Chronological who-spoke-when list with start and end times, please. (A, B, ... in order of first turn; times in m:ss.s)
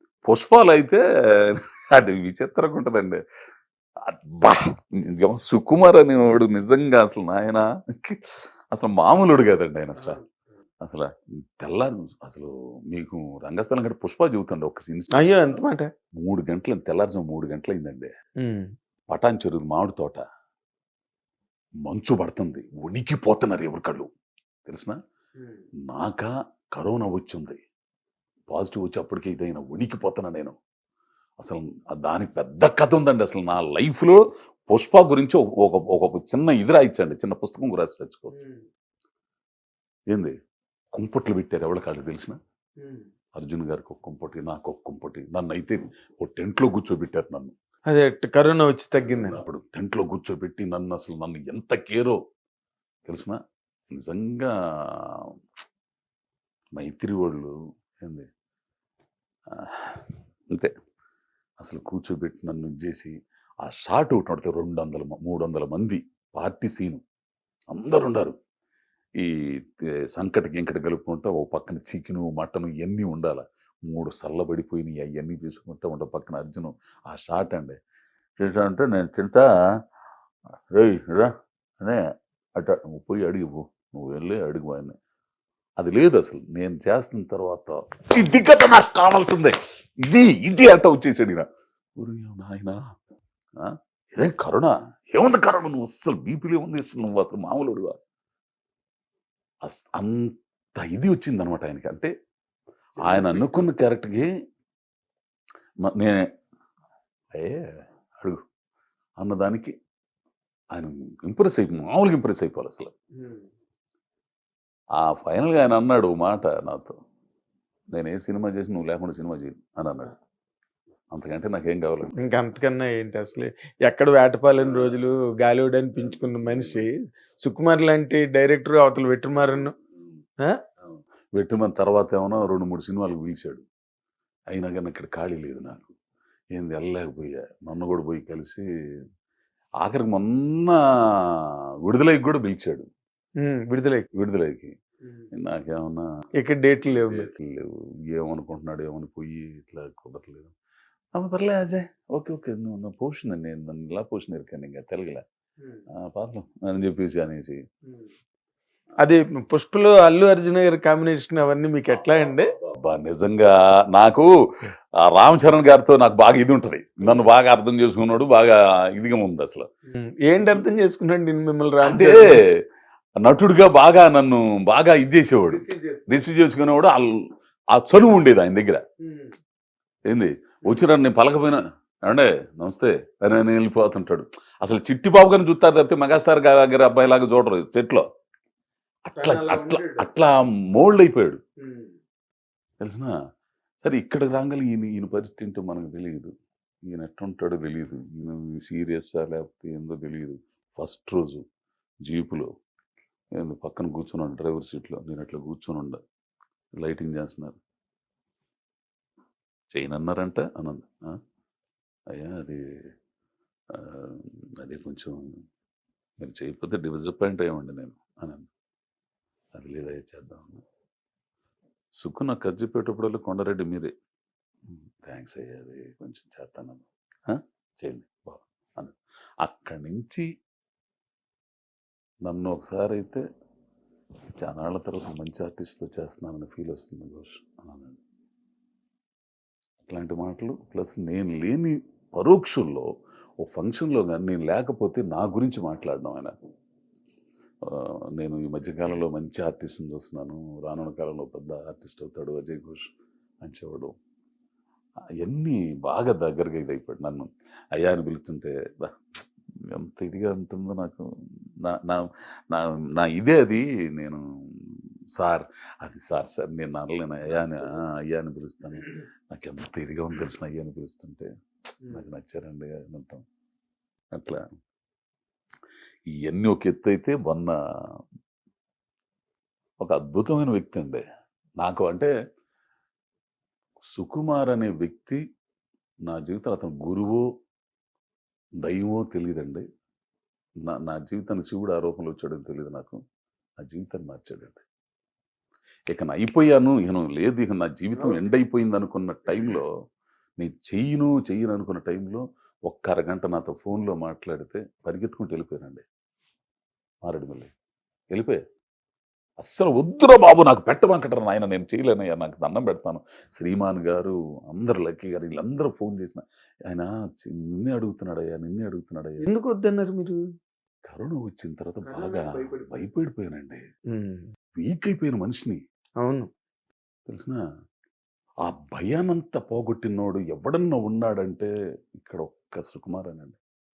0:00.3-0:03.2 A
0:04.0-0:10.2 A
0:10.0-0:10.4 B
0:10.8-0:15.6 A
0:15.1-0:15.9 B
0:16.2-0:18.1 A
0:18.4-0:18.7 B
0:19.1-0:20.2 A
0:21.8-0:24.1 A
0:24.7-0:25.0 A
0:25.9-0:27.6 A
0:28.5-0:30.5 A
0:31.4-0:38.3 A
0:38.3-0:38.6 B
0:40.9-0:42.4 A
0:42.8-0:43.1 B
0:43.4-0:47.5 A
0:47.9-0:49.4 B
0:49.0-0:52.2 A
0:53.1-0:53.4 A
0:53.9-0:55.2 A
0:56.8-0:58.3 A
0:59.5-1:00.7 A
1:01.6-1:07.0 A
1:07.7-1:08.4 A
1:09.2-1:17.8 A
1:18.4-1:19.5 A
1:20.7-1:22.0 A
1:22.6-1:24.9 A
1:25.8-1:32.8 A
1:33.6-1:38.0 A
1:39.6-1:42.1 A
1:43.0-1:43.7 B
1:43.0-1:44.3 A
1:45.8-1:46.2 A
1:47.3-1:47.7 A
1:49.2-1:49.7 A
1:50.7-1:52.9 A
1:53.2-1:53.5 B
1:55.0-1:57.0 A
1:57.9-2:00.1 A
2:01.1-2:02.1 A
2:02.2-2:09.7 B
2:04.6-2:05.0 A
2:06.0-2:06.8 A
2:11.4-2:13.6 A
2:14.5-2:15.9 A
2:16.5-2:18.6 A
2:19.8-2:22.9 A
2:23.4-2:24.1 B
2:24.1-2:24.7 A
2:25.0-2:25.3 B
2:25.3-2:26.0 A
2:26.4-2:27.3 B
2:26.9-2:30.5 A
2:31.1-2:35.2 A
2:35.6-2:35.8 B
2:35.9-2:37.6 A
2:37.8-2:38.1 B
2:39.0-2:42.5 B
2:42.8-2:44.3 A
2:45.1-2:49.7 A
2:47.0-2:47.3 B
2:49.9-2:52.4 B
2:50.4-2:50.6 A
2:51.8-2:52.6 A
2:53.2-2:57.2 A
2:55.5-2:56.1 B
2:57.7-2:58.8 A
2:59.0-2:59.3 B
3:00.1-3:08.0 A
3:09.1-3:11.4 A
3:09.2-3:10.1 B
3:11.6-3:12.0 B
3:12.8-3:13.1 A
3:13.8-3:16.3 A
3:16.9-3:21.4 A
3:22.0-3:22.5 A
3:23.4-3:26.0 A
3:26.8-3:27.6 A
3:29.7-3:30.9 A
3:32.1-3:32.6 A
3:33.7-3:35.3 A
3:36.2-3:38.5 A
3:39.5-3:40.6 A
3:42.0-3:43.9 A
3:44.9-3:50.2 A
3:52.2-3:53.2 A
3:54.4-3:58.0 A
3:59.8-4:02.9 A
4:03.4-4:06.3 A
4:07.6-4:12.9 A
4:13.4-4:13.9 A
4:15.2-4:21.1 A
4:21.6-4:31.3 A
4:27.3-4:27.6 B
4:31.9-4:33.2 A
4:34.1-4:34.4 A
4:36.2-4:37.5 A
4:39.8-4:41.0 A
4:41.6-4:42.1 A
4:43.9-4:45.2 A
4:46.1-4:47.2 A
4:48.6-4:49.6 A
4:50.6-4:53.0 A
4:53.6-4:54.6 A
4:55.9-4:59.7 A
4:57.9-4:58.2 B
4:59.3-4:59.6 B
5:00.4-5:05.8 A
5:07.0-5:07.5 A
5:08.1-5:08.4 A
5:09.4-5:19.3 A
5:19.2-5:20.2 B
5:20.9-5:23.6 A
5:21.8-5:22.9 B
5:23.9-5:24.3 B
5:24.6-5:25.6 A
5:26.0-5:26.3 B
5:27.1-5:27.4 A
5:28.4-5:33.4 A